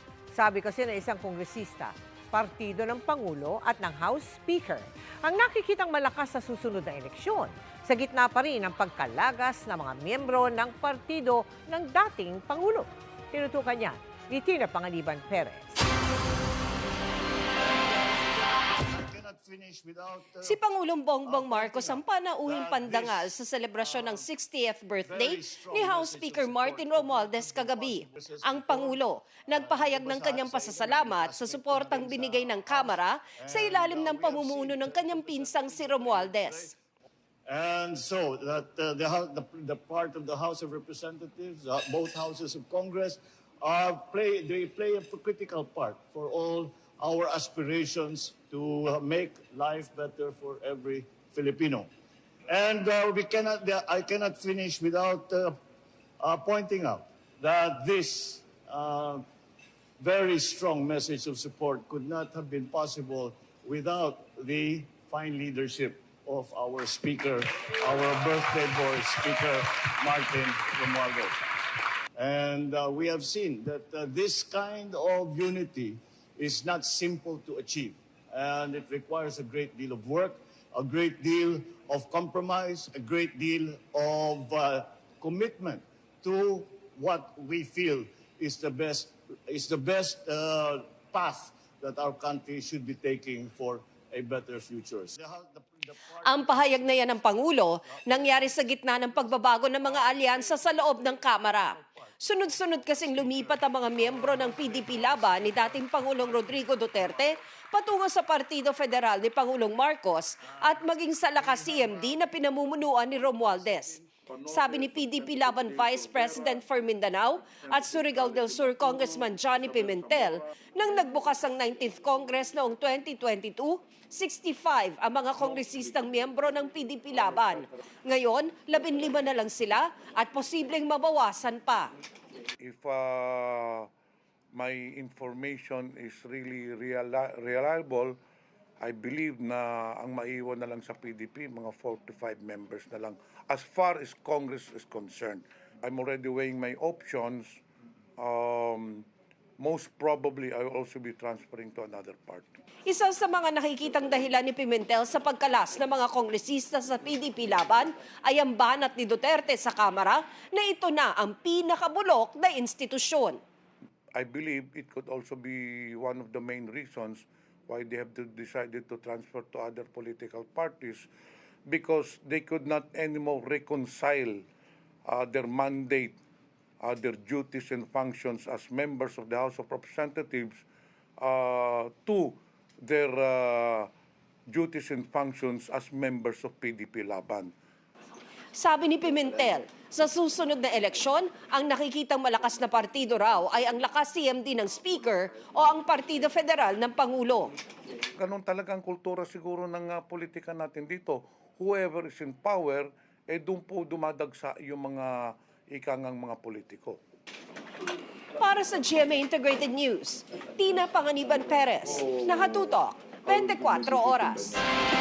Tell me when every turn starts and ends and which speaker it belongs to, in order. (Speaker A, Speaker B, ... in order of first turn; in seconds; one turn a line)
Speaker A: 0.3-15.8
Speaker B: 17.6-20.6
Speaker C: 20.4-36.7
Speaker B: 21.2-24.3
Speaker B: 25.0-36.7
Speaker B: 37.5-51.9
Speaker B: 52.5-55.6
Speaker B: 56.2-59.2
Speaker B: 60.0-71.5
Speaker B: 72.2-107.3
Speaker C: 96.2-131.9
Speaker B: 110.5-110.8
Speaker B: 111.4-112.1
Speaker D: 132.6-133.9
Speaker D: 134.5-138.2
Speaker D: 138.8-147.6
Speaker D: 148.2-149.1
Speaker D: 149.6-152.5
Speaker C: 152.9-163.4
Speaker D: 164.2-171.1
Speaker D: 171.7-174.4
Speaker D: 175.1-176.2
Speaker D: 176.8-180.6
Speaker D: 181.2-183.9
Speaker D: 184.5-187.5
Speaker C: 188.6-197.5
Speaker D: 198.2-207.0
Speaker C: 208.4-214.6